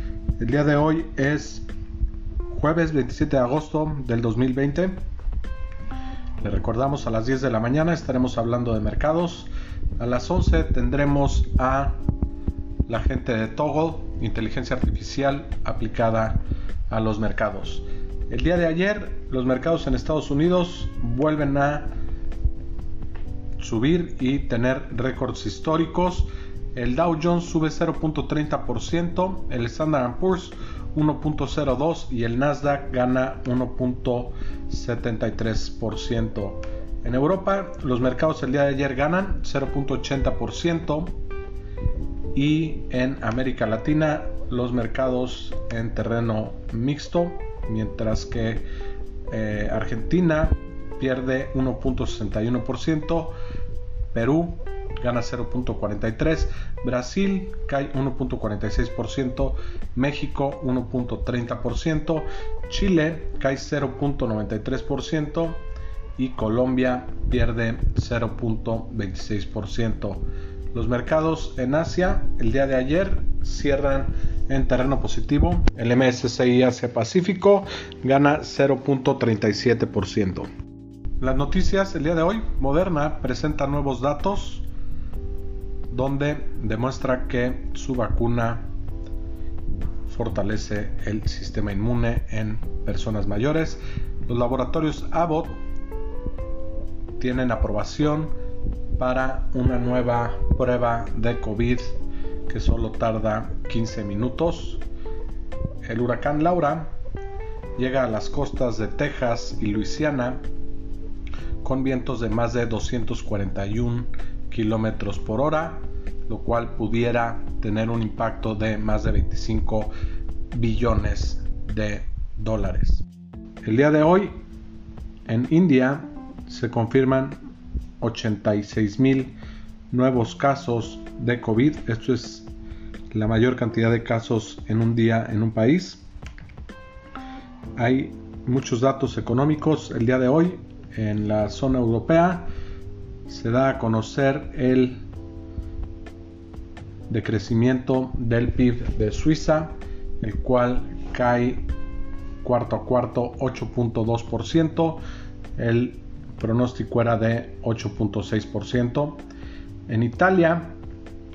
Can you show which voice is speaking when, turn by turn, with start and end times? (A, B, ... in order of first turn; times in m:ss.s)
0:00.4-0:01.7 A
0:02.5-0:05.0 A
0:06.4-0:12.0 A
0:12.9-0:21.9 A
0:23.6-0:41.2 A
0:42.3-0:48.6 A
0:49.3-0:53.4 A
0:54.1-1:05.6 A
1:06.2-1:20.5 A
1:21.2-1:24.7 A
1:25.9-1:28.7 A
1:30.1-1:35.6 A
1:37.2-1:38.3 A
1:39.0-1:44.8 A
1:45.8-1:46.9 A
1:47.8-1:50.4 A
1:51.6-1:59.9 A
2:00.5-2:03.1 A
2:03.6-2:04.4 A
2:05.3-2:07.4 A
2:08.0-2:09.4 A
2:09.9-2:12.5 A
2:13.1-2:16.1 A
2:17.8-2:22.5 A
2:23.3-2:25.0 A
2:27.1-2:31.7 A
2:32.4-2:35.0 A
2:35.6-2:39.2 A
2:39.9-2:40.8 A